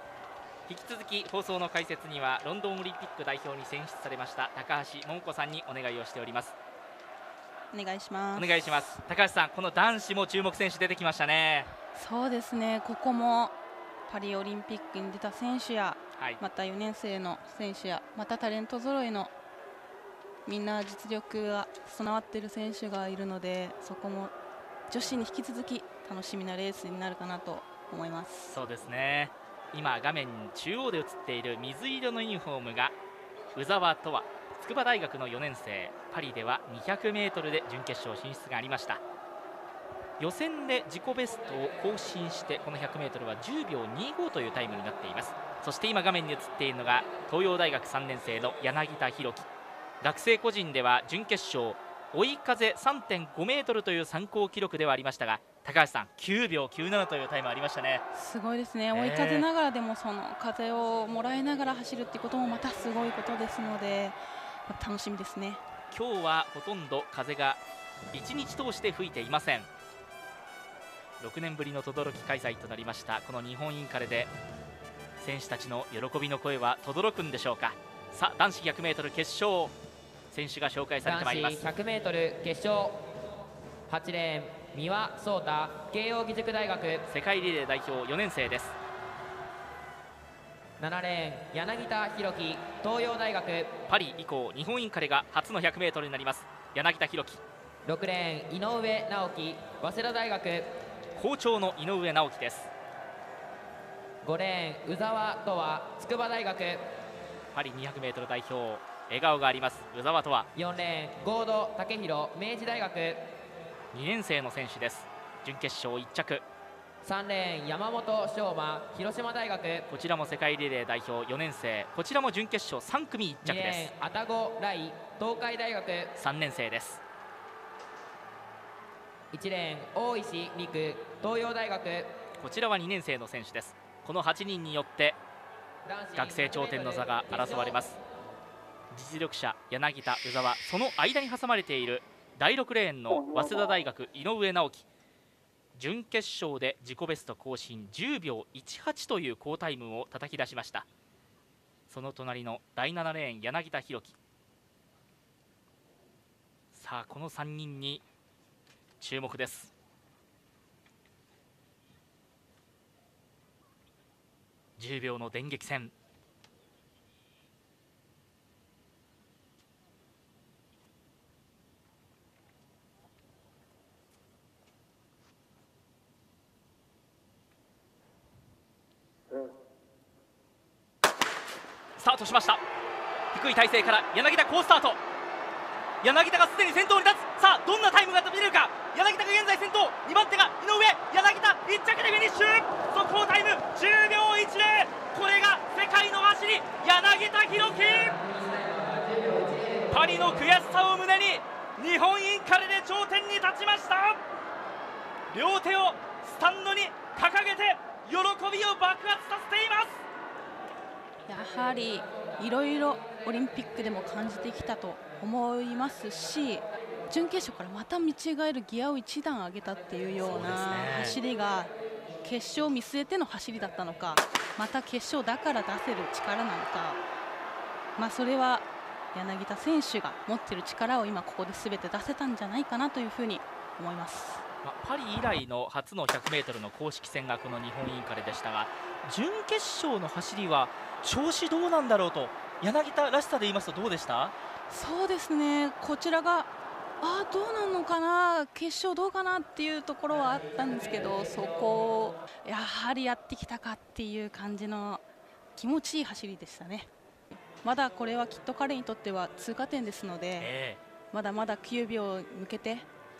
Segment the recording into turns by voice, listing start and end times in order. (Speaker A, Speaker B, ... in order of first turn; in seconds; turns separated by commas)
Speaker A: 0.7-6.5, Speaker B: 7.7-8.5, Speaker A: 8.3-11.7, Speaker B: 11.9-13.5, Speaker B: 14.1-19.3, Speaker B: 20.4-24.3, Speaker B: 24.9-28.6, Speaker A: 28.5-33.0, Speaker A: 33.5-39.0, Speaker A: 40.2-49.5, Speaker A: 50.0-58.0, Speaker B: 58.1-65.6, Speaker A: 58.9-59.5, Speaker A: 65.9-67.6, Speaker A: 68.1-69.7, Speaker A: 71.2-74.3, Speaker A: 75.2-79.7, Speaker A: 80.3-81.7, Speaker C: 81.0-83.0, Speaker C: 83.9-87.1, Speaker A: 87.1-88.8, Speaker C: 90.8-93.7, Speaker A: 93.9-97.4, Speaker C: 97.8-100.7, Speaker A: 101.1-102.7, Speaker C: 104.2-106.8, Speaker A: 107.5-110.5, Speaker C: 110.5-113.2, Speaker A: 113.9-116.4, Speaker C: 117.0-119.9, Speaker A: 119.9-123.9, Speaker C: 123.4-126.1, Speaker A: 126.2-127.0, Speaker C: 129.3-132.1, Speaker A: 132.4-135.2, Speaker C: 135.8-137.8, Speaker A: 136.1-138.0, Speaker A: 138.9-144.8, Speaker A: 145.8-150.9, Speaker A: 151.9-154.2, Speaker A: 156.7-158.0, Speaker A: 159.0-159.7, Speaker A: 164.8-165.9, Speaker A: 182.0-182.6, Speaker A: 183.3-185.0, Speaker A: 186.0-198.2, Speaker C: 198.3-199.8, Speaker A: 199.9-204.2, Speaker A: 205.3-210.0, Speaker B: 211.3-221.7, Speaker A: 220.2-221.2, Speaker B: 222.2-227.0, Speaker B: 228.0-234.4, Speaker A: 234.6-244.3, Speaker B: 244.7-246.5, Speaker B: 247.0-255.0, Speaker B: 255.5-256.9, Speaker B: 257.4-260.5, Speaker A: 260.4-260.8, Speaker B: 261.1-262.9